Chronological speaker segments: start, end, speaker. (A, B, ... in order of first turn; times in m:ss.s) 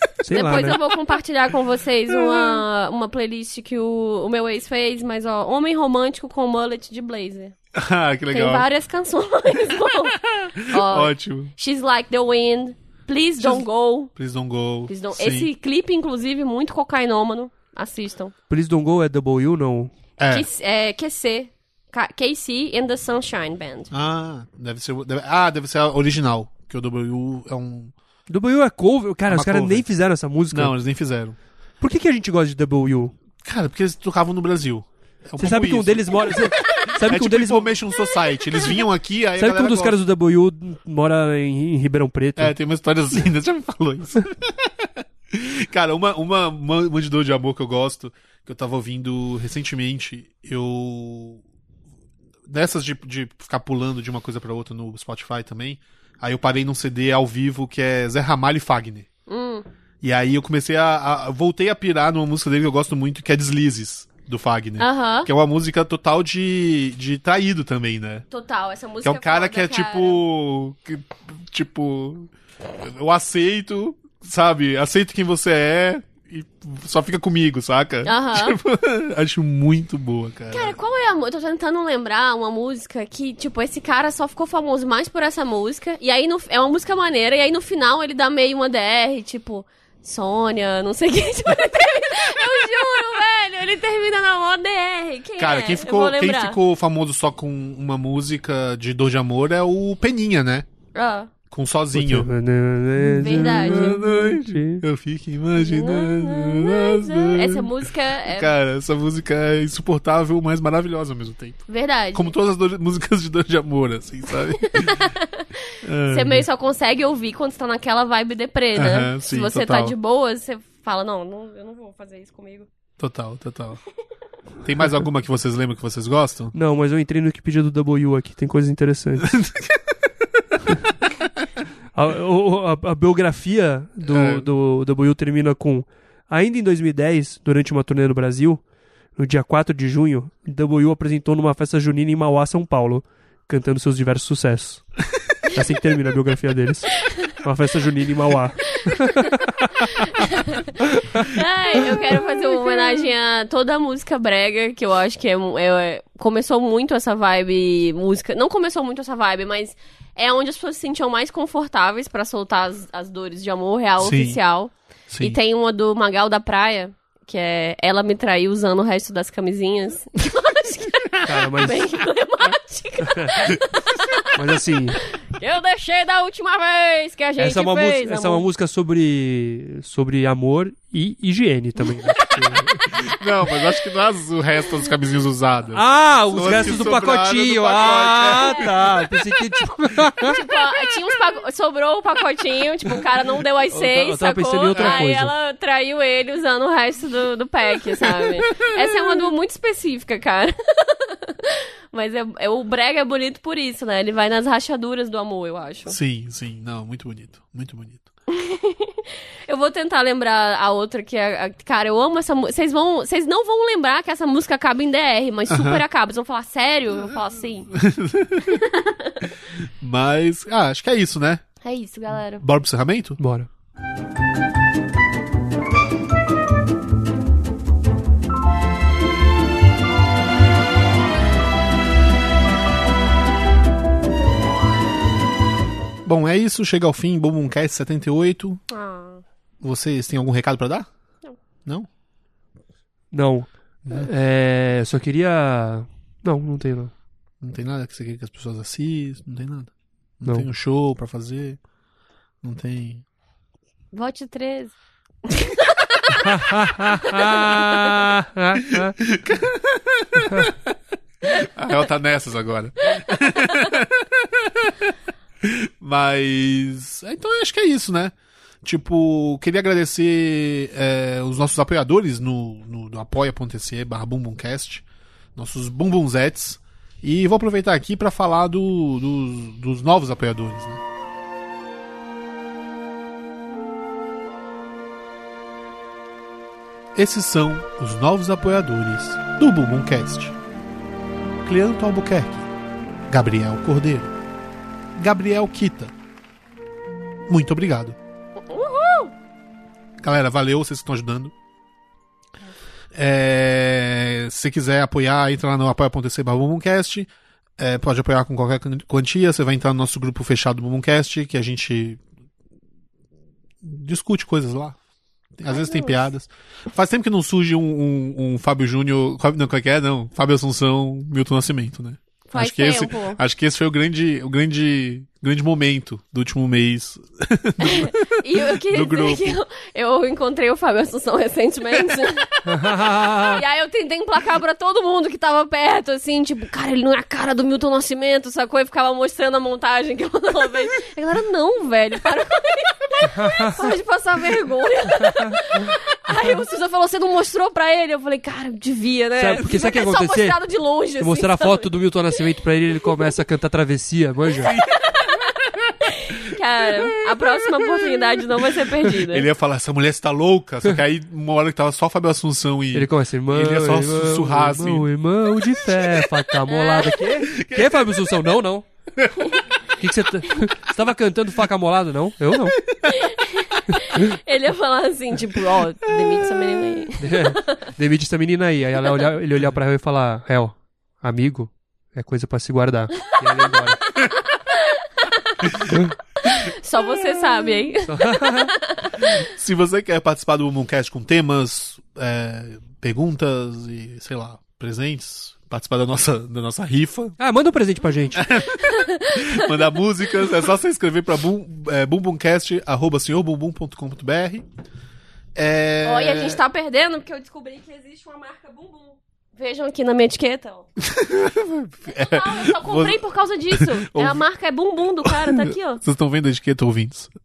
0:00.2-0:00.8 A
0:00.3-0:07.6 B
0:02.1-0:02.6 C
0:07.7-0:08.7 C
0:08.3-0:14.1 B
0:10.3-0:11.5 C
0:13.4-0:15.5 C
0:14.9-0:18.3 B
0:18.5-0:19.9 A
0:20.2-0:20.5 C
0:20.3-0:23.9 B
0:23.9-0:27.9 C
0:28.3-0:30.7 A
0:29.3-0:29.9 C
0:30.5-0:31.4 C
0:31.8-0:33.1 A
0:33.4-0:40.0 C
0:35.4-0:37.8 A
0:39.4-0:42.6 A
0:42.4-0:51.4 C
0:52.5-0:59.1 C
0:59.3-0:59.6 B
1:00.0-1:08.3 C
1:04.8-1:05.3 B
1:08.3-1:10.2 B
1:09.0-1:20.8 C
1:18.0-1:18.6 B
1:20.5-1:36.6 B
1:35.4-1:40.7 C
1:40.9-1:41.3 B
1:41.5-1:42.3 C
1:41.9-1:44.8 A
1:43.0-1:44.0 B
1:43.4-1:51.6 C
1:45.6-1:48.5 B
1:51.7-1:52.3 B
1:52.1-1:55.1 C
1:54.6-2:02.7 B
1:55.8-1:56.4 C
1:58.7-1:59.9 C
2:03.0-2:03.8 C
2:04.6-2:06.5 C
2:06.5-2:09.3 A
2:09.2-2:10.4 C
2:11.9-2:18.6 A
2:14.0-2:14.5 C
2:19.2-2:24.9 A
2:25.4-2:29.7 A
2:28.7-2:54.3 B
2:30.9-2:31.3 A
2:44.0-2:44.4 C
2:45.1-2:45.4 C
2:51.2-2:51.9 A
2:54.3-2:55.0 A
2:55.0-2:58.4 B
2:57.4-3:02.8 A
3:02.5-3:03.1 B
3:03.0-3:08.8 C
3:05.7-3:10.4 A
3:06.4-3:06.9 B
3:08.1-3:08.7 B
3:10.2-3:26.0 B
3:13.7-3:15.3 A
3:14.7-3:15.0 C
3:25.9-3:28.1 C
3:28.3-3:37.7 B
3:35.5-3:35.8 C
3:37.7-3:38.6 C
3:38.5-3:39.2 B
3:39.8-3:41.4 C
3:41.6-3:42.4 B
3:42.4-3:43.2 C
3:43.2-3:43.5 A
3:56.0-3:58.6 C
3:58.7-3:59.2 B
3:59.6-4:00.9 C
4:03.1-4:06.9 A
4:07.4-4:11.6 C
4:12.4-4:13.0 C
4:13.9-4:14.7 B
4:15.3-4:16.2 B
4:16.1-4:19.0 A
4:18.7-4:34.8 C
4:23.1-4:23.6 B
4:35.4-4:40.8 C
4:46.9-4:50.4 C
4:51.4-4:52.5 C
4:53.1-4:54.1 C
4:55.0-4:55.9 C
4:57.3-4:58.0 C
4:58.4-4:59.1 B
5:00.0-5:01.3 C
5:02.9-5:12.0 C
5:13.6-5:14.8 C
5:15.4-5:29.3 C
5:15.5-5:16.1 B
5:22.3-5:23.2 B
5:27.6-5:51.7 B
5:32.4-5:33.4 A
5:43.0-5:43.7 A
5:49.2-5:50.4 A
5:51.0-5:54.5 A
5:54.4-5:54.8 C
5:54.6-5:55.2 B
5:55.8-5:59.3 B
5:57.2-6:04.9 C
6:02.7-6:08.6 A
6:05.6-6:06.1 C
6:06.5-6:07.1 B
6:07.3-6:08.1 C
6:08.9-6:09.3 C
6:09.8-6:12.6 A
6:12.6-6:13.0 C
6:12.9-6:17.6 B
6:17.0-6:23.8 A
6:24.0-6:25.5 B
6:25.4-6:25.8 C
6:26.2-6:29.1 B
6:27.1-6:27.5 C
6:27.9-6:28.5 A
6:29.0-6:37.2 C
6:37.2-6:38.2 A
6:38.1-6:44.4 C
6:38.4-6:39.7 B
6:45.4-6:46.4 C
6:45.8-6:50.6 B
6:50.8-6:54.2 C
6:51.9-6:55.8 B
6:55.0-6:57.1 C